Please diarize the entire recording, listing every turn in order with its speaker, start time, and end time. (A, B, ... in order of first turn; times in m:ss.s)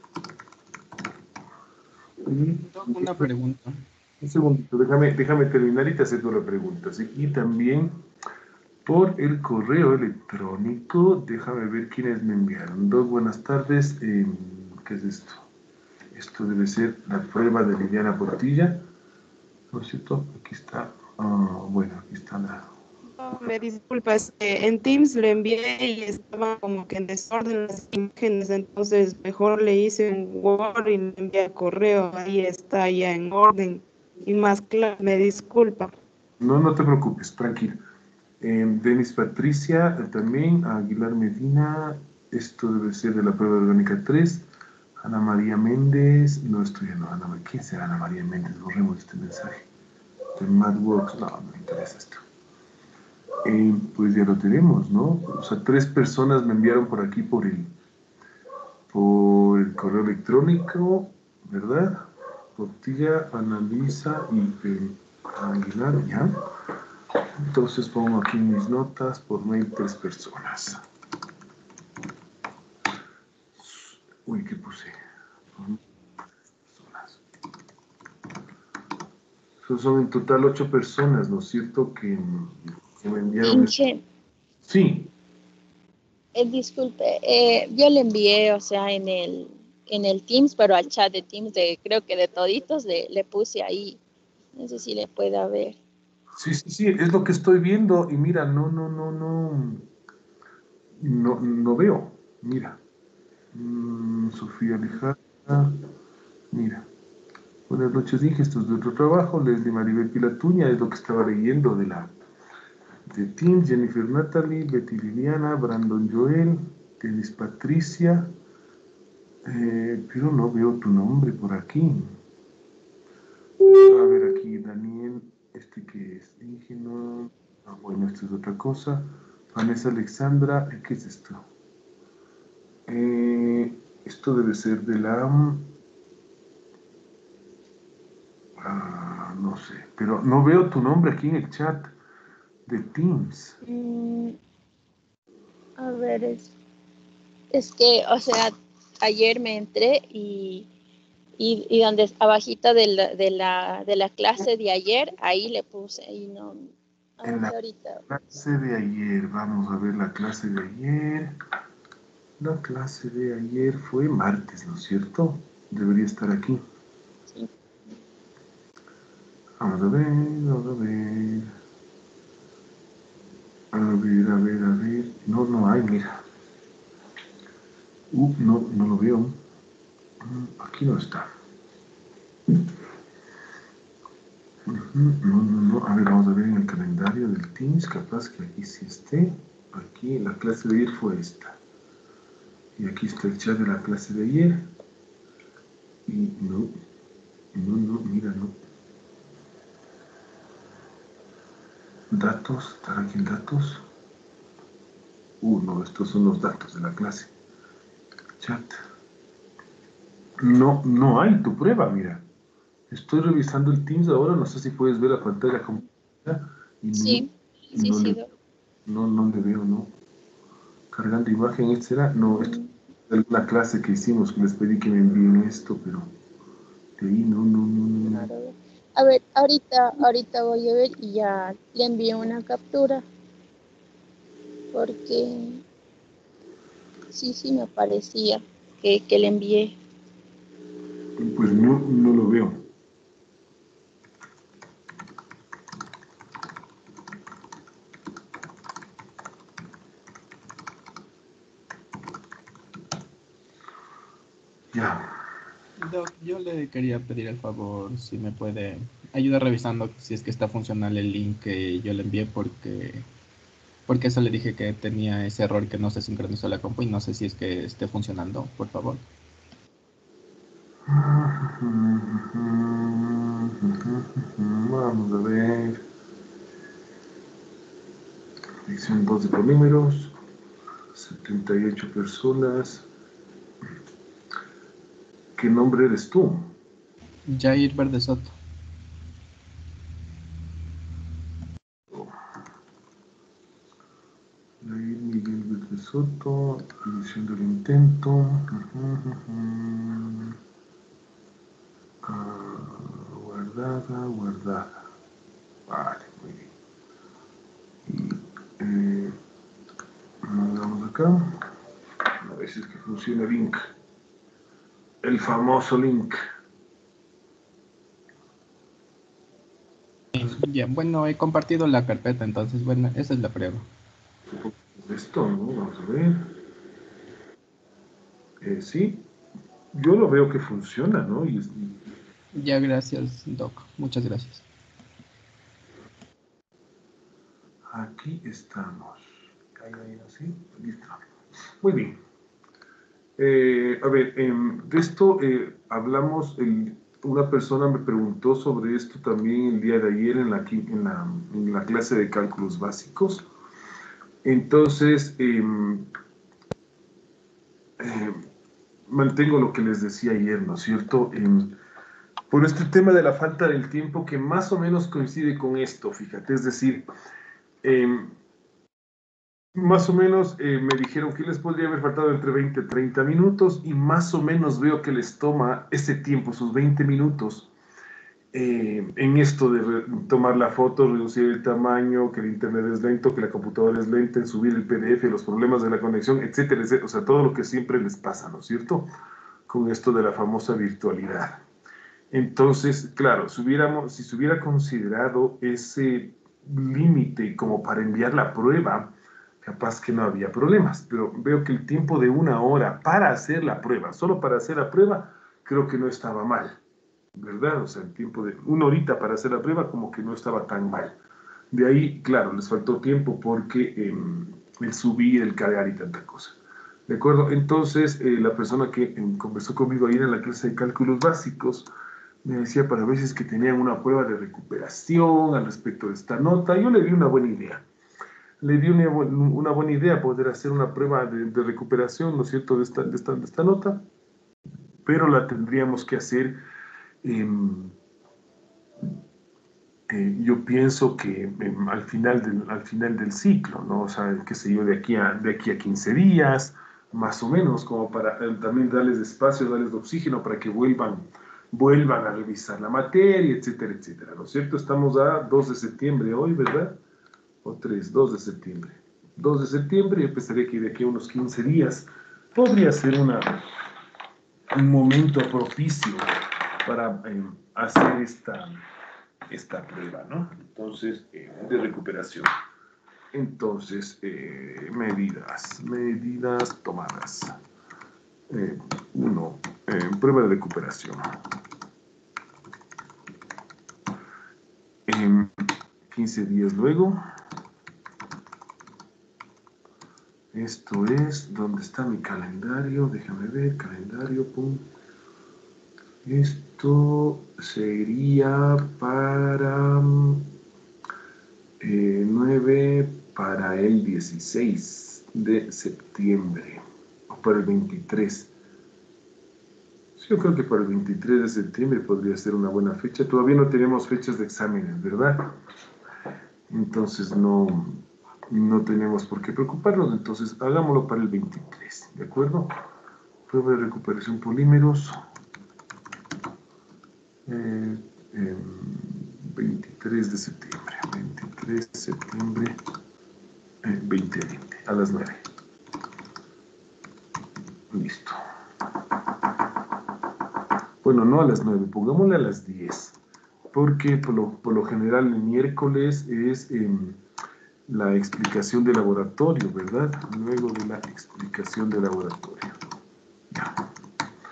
0:02.2-0:03.3 A
0:02.7-0:03.8 B
0:04.2-0:08.0 A
0:08.8-0:15.4 A
0:16.1-0:18.8 A
0:19.7-0:22.7 A
0:23.1-0:35.9 C
0:36.4-0:37.8 A
0:38.4-0:44.4 A
0:45.0-0:49.6 A
0:50.4-0:52.2 A
0:53.4-0:57.7 A
0:58.9-1:06.4 A
1:07.4-1:10.8 A
1:13.6-1:14.9 A
1:16.7-1:17.2 A
1:19.6-1:23.7 A
1:23.4-1:24.0 D
1:24.6-1:25.1 A
1:26.3-1:34.0 D
1:34.6-1:35.8 D
1:36.4-1:39.8 A
1:41.0-1:42.8 A
1:43.5-1:45.8 A
1:46.5-1:46.8 A
1:47.7-1:52.1 A
1:53.1-1:58.3 A
1:59.4-2:02.1 A
2:03.7-2:11.4 A
2:12.9-2:15.7 A
2:18.6-2:21.9 A
2:22.7-2:23.6 A
2:23.6-2:24.4 D
2:25.8-2:26.5 D
2:27.5-2:30.7 D
2:31.4-2:38.0 D
2:37.2-2:37.5 A
2:38.1-2:41.3 A
2:42.4-2:46.6 A
2:49.6-2:51.5 A
2:53.7-2:56.2 A
2:58.1-2:59.4 A
3:00.2-3:01.3 A
3:04.7-3:11.6 A
3:12.8-3:14.6 A
3:16.1-3:16.7 A
3:17.5-3:18.5 A
3:22.1-3:23.8 A
3:25.4-3:27.3 A
3:28.4-3:28.8 A
3:30.4-3:32.2 A
3:32.9-3:38.2 A
3:36.9-3:38.3 D
3:38.8-3:39.9 A
3:40.9-3:42.5 A
3:42.3-3:42.7 D
3:43.1-3:46.1 A
3:47.0-3:48.3 A
3:48.0-3:53.0 D
3:54.7-3:55.6 D
3:57.1-3:59.8 D
4:01.2-4:02.6 A
4:14.7-4:15.1 A
4:15.8-4:23.0 B
4:23.9-4:29.0 B
4:30.9-4:35.8 A
4:38.7-4:40.1 A
4:40.9-4:42.8 A
4:45.4-4:46.5 A
4:47.3-4:48.3 B
4:54.6-5:00.4 A
5:02.0-5:04.8 A
5:05.7-5:06.5 A
5:07.8-5:09.2 A
5:10.2-5:11.4 A
5:12.2-5:13.6 A
5:15.0-5:16.2 A
5:20.1-5:23.6 B
5:24.3-5:26.2 A
5:28.4-5:29.0 A
5:29.7-5:31.8 A
5:32.3-5:34.4 B
5:37.7-5:41.0 A
5:41.6-5:42.0 A
5:43.2-5:53.3 A
5:54.2-5:55.9 A
5:57.8-5:58.2 A
5:58.9-6:01.5 A
6:02.3-6:06.8 A
6:07.6-6:08.1 A
6:09.5-6:17.5 A
6:18.3-6:28.9 A
6:29.5-6:31.4 A
6:32.1-6:46.6 A
6:47.2-6:50.9 A
6:51.5-6:56.4 A
6:56.9-7:01.7 A
7:02.2-7:07.6 A
7:08.4-7:13.8 A
7:14.8-7:16.4 A
7:17.0-7:17.7 A
7:19.9-7:36.8 A
7:37.4-7:43.4 A
7:44.5-7:46.1 A
7:46.6-7:48.6 A
7:49.3-7:52.3 A
7:53.1-7:57.4 A
7:58.3-8:01.1 A
8:04.9-8:05.3 A
8:05.9-8:07.0 A
8:10.3-8:14.6 A
8:16.0-8:20.2 A
8:21.6-8:28.3 A
8:30.0-8:35.4 A
8:36.5-8:42.5 A
8:43.3-8:45.0 A
8:47.2-8:52.6 A
8:53.6-8:55.2 A
8:57.7-8:58.2 A
9:00.8-9:03.0 A
9:03.5-9:07.0 A
9:07.7-9:12.6 A
9:13.3-9:13.6 A